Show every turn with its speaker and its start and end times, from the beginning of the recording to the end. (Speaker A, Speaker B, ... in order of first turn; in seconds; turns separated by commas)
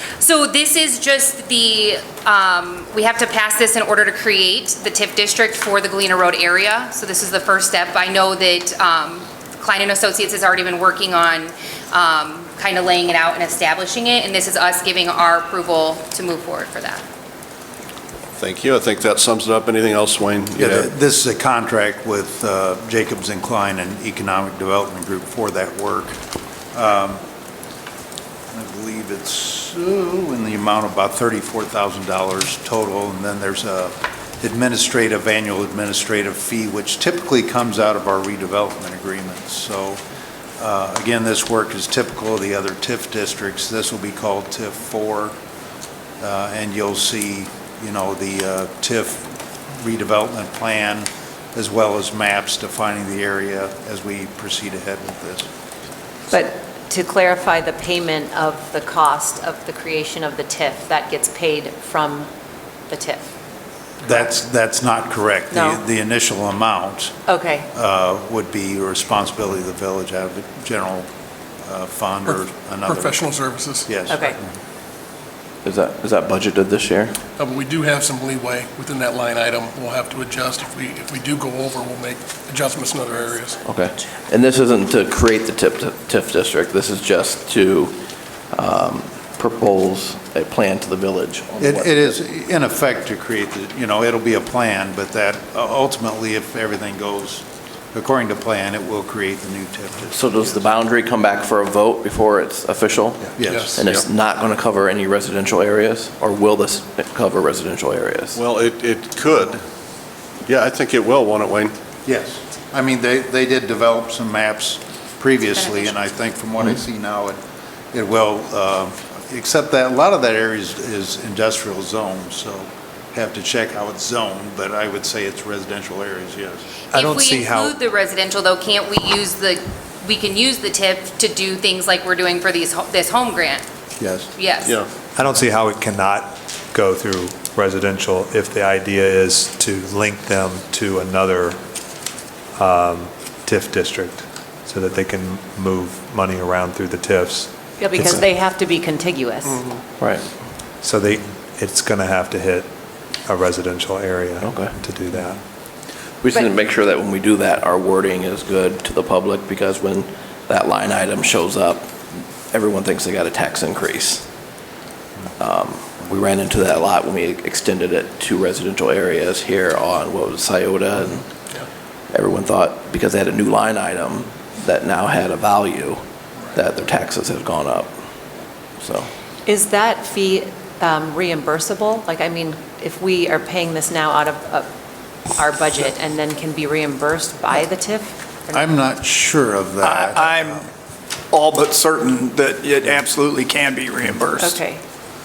Speaker A: 0.2-17.0, Speaker B: 18.4-20.9, Speaker C: 20.6-26.2, Speaker C: 26.7-27.2, Speaker C: 28.5-40.0, Speaker C: 40.6-45.3, Speaker C: 46.2-55.5, Speaker A: 56.3-58.8, Speaker D: 56.8-62.2, Speaker A: 59.5-60.4, Speaker A: 61.0-61.9, Speaker D: 62.9-63.2, Speaker C: 64.0-67.1, Speaker C: 67.7-71.1, Speaker C: 71.6-73.2, Speaker E: 72.3-74.0, Speaker C: 73.9-74.4, Speaker A: 74.1-74.3, Speaker F: 75.6-77.2, Speaker E: 77.4-83.6, Speaker F: 83.6-87.9, Speaker F: 88.5-92.1, Speaker C: 91.6-100.5, Speaker F: 100.1-108.4, Speaker C: 103.4-103.8, Speaker B: 108.3-109.6, Speaker B: 110.5-111.7, Speaker C: 112.0-117.4, Speaker A: 115.5-115.9, Speaker C: 117.9-126.7, Speaker G: 126.9-127.7, Speaker A: 126.9-133.6, Speaker C: 134.0-134.3, Speaker A: 134.3-134.8, Speaker G: 135.2-141.6, Speaker G: 142.6-147.5, Speaker D: 147.8-149.6, Speaker F: 147.9-148.2, Speaker A: 149.4-149.6, Speaker F: 150.0-150.3, Speaker G: 150.8-152.7, Speaker G: 153.2-155.4, Speaker F: 154.4-154.8, Speaker F: 156.2-164.2, Speaker F: 165.4-171.3, Speaker F: 172.1-176.0, Speaker F: 176.5-177.9, Speaker F: 178.8-179.1, Speaker D: 179.4-184.6, Speaker D: 185.4-188.1, Speaker C: 188.5-190.7, Speaker H: 189.8-190.6, Speaker H: 191.3-194.7